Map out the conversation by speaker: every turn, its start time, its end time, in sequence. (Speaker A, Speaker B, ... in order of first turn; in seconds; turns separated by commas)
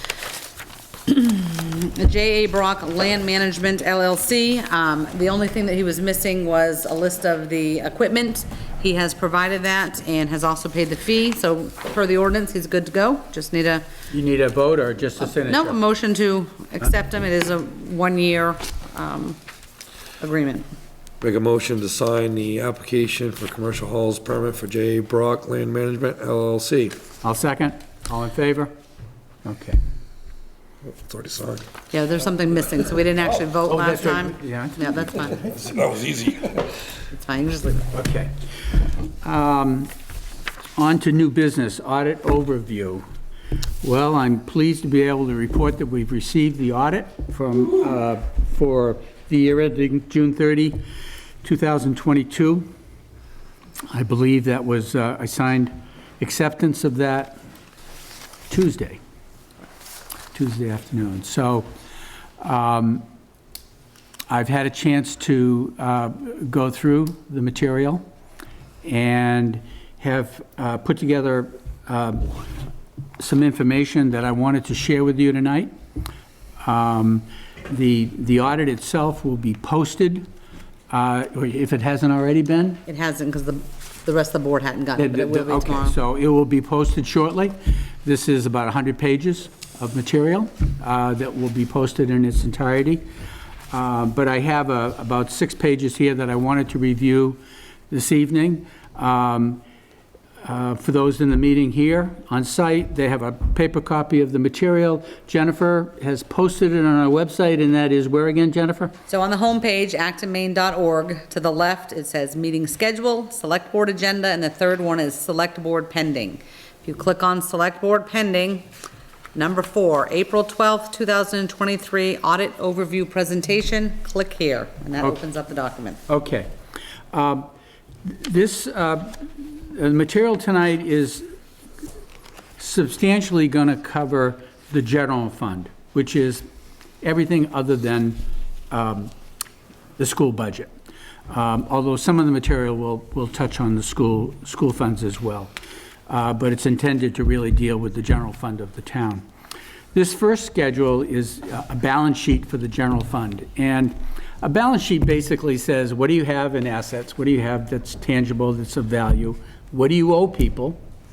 Speaker A: 1.1-13.9, Speaker B: 14.1-15.8, Speaker A: 15.2-19.4, Speaker A: 20.2-20.7, Speaker C: 21.2-27.0, Speaker B: 27.2-28.7, Speaker B: 29.4-29.8, Speaker C: 30.8-31.7, Speaker A: 31.9-35.4, Speaker B: 33.6-34.9, Speaker C: 35.4-36.7, Speaker A: 37.1-37.9, Speaker B: 37.9-38.3, Speaker B: 39.1-39.9, Speaker B: 40.8-43.0, Speaker B: 43.8-50.8, Speaker B: 51.4-52.7, Speaker B: 53.9-57.4, Speaker B: 58.5-59.0, Speaker B: 60.3-61.7, Speaker B: 62.4-63.0, Speaker B: 64.3-68.0, Speaker B: 68.8-72.4, Speaker B: 73.2-75.7, Speaker B: 76.6-80.3, Speaker B: 80.9-82.8, Speaker A: 82.9-86.0, Speaker B: 85.0-93.0, Speaker B: 93.7-99.6, Speaker B: 100.4-108.9, Speaker A: 109.1-118.7, Speaker A: 119.3-126.0, Speaker B: 126.1-126.5, Speaker B: 127.1-127.5, Speaker B: 128.0-131.2, Speaker B: 132.6-136.4, Speaker B: 137.0-139.1, Speaker B: 140.0-140.7, Speaker B: 141.3-145.5, Speaker B: 146.1-149.2, Speaker B: 149.9-160.8